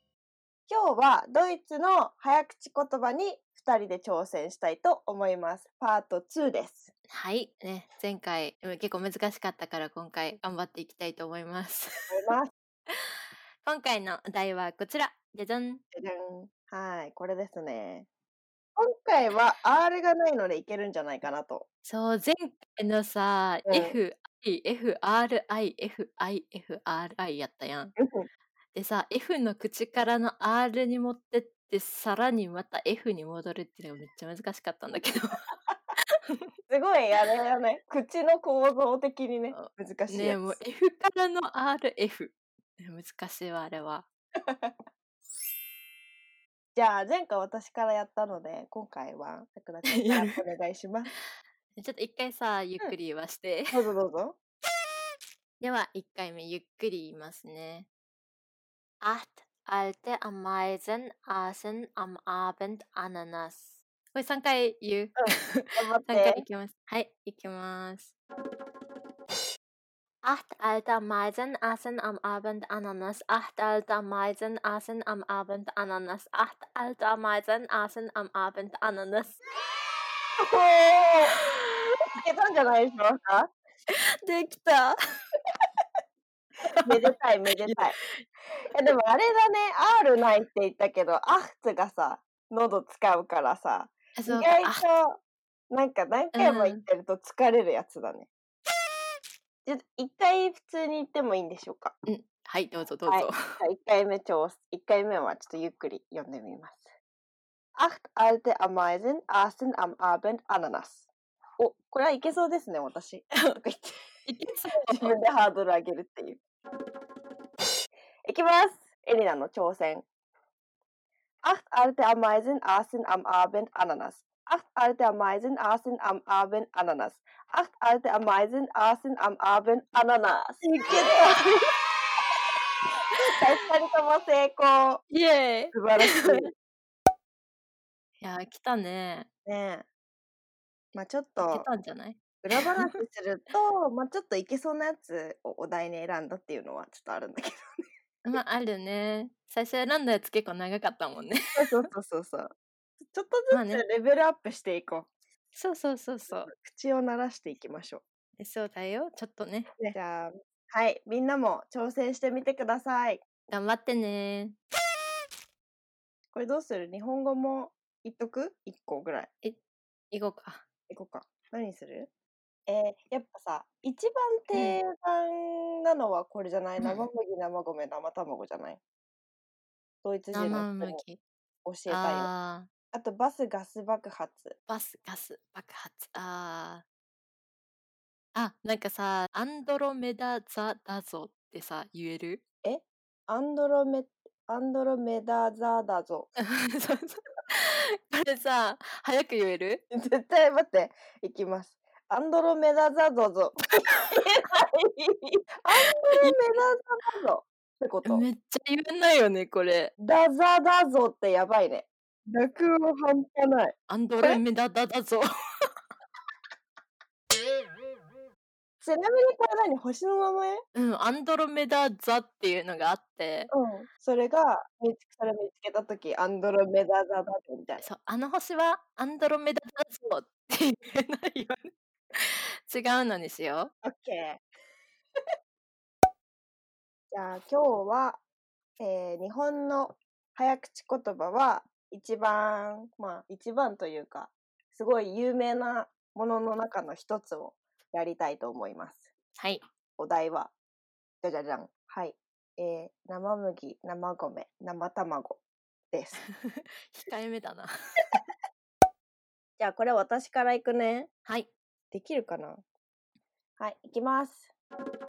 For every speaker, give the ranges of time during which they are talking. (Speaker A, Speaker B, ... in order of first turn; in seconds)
Speaker A: 0.7-6.9, 12.1-12.5, 15.9-18.1, 18.8-21.7, 23.7-24.0, 28.0-28.2, 36.7-40.6, 44.5-44.8, 46.8-51.1, 53.7-54.4, 65.2-66.4, 80.4-81.3, 82.2-83.5, 86.9-88.0, 88.7-98.3, 99.7-102.0, 103.1-106.9, 107.8-114.0, 114.7-116.4, 118.2-120.0, 121.4-131.5, 133.3-135.0, 135.7-136.5, 139.5-139.9, 140.9-141.7, 142.4-147.6, 151.6-152.5, 153.1-155.1, 156.3-158.0, 159.8-163.2, 166.3-169.3, 170.9-172.1, 172.7-178.8, 180.0-181.0, 181.7-182.3, 182.9-184.6, 192.6-196.3, 199.9-208.2, 210.0-214.4, 218.8-220.6, 223.5-227.8, 233.8-234.4, 237.1-238.2, 238.8-249.1, 250.0-250.5, 251.2-256.2, 259.6-261.1, 261.9-262.6, 263.6-264.5
Speaker B: 7.1-12.2, 13.6-15.8, 21.9-27.9, 28.7-35.4, 39.5-44.1, 49.9-50.4, 51.8-53.9, 55.6-57.9, 59.0-68.2, 70.2-79.4, 81.4-82.0, 84.3-85.0, 86.7-88.3, 94.2-94.8, 96.3-96.8, 102.1-103.6, 114.2-115.2, 130.6-131.7, 135.1-136.5, 138.2-139.3, 141.4-143.0, 148.2-151.9, 153.5-153.8, 155.6-156.5, 158.4-159.8, 163.5-164.6, 170.1-170.6, 174.5-174.8, 176.8-177.1, 180.3-181.2, 181.9-182.7, 184.7-186.8, 188.3-192.4, 196.4-199.8, 206.1-206.4, 208.0-209.9, 213.9-215.3, 220.8-223.5, 227.8-233.7, 249.4-249.6, 256.4-257.7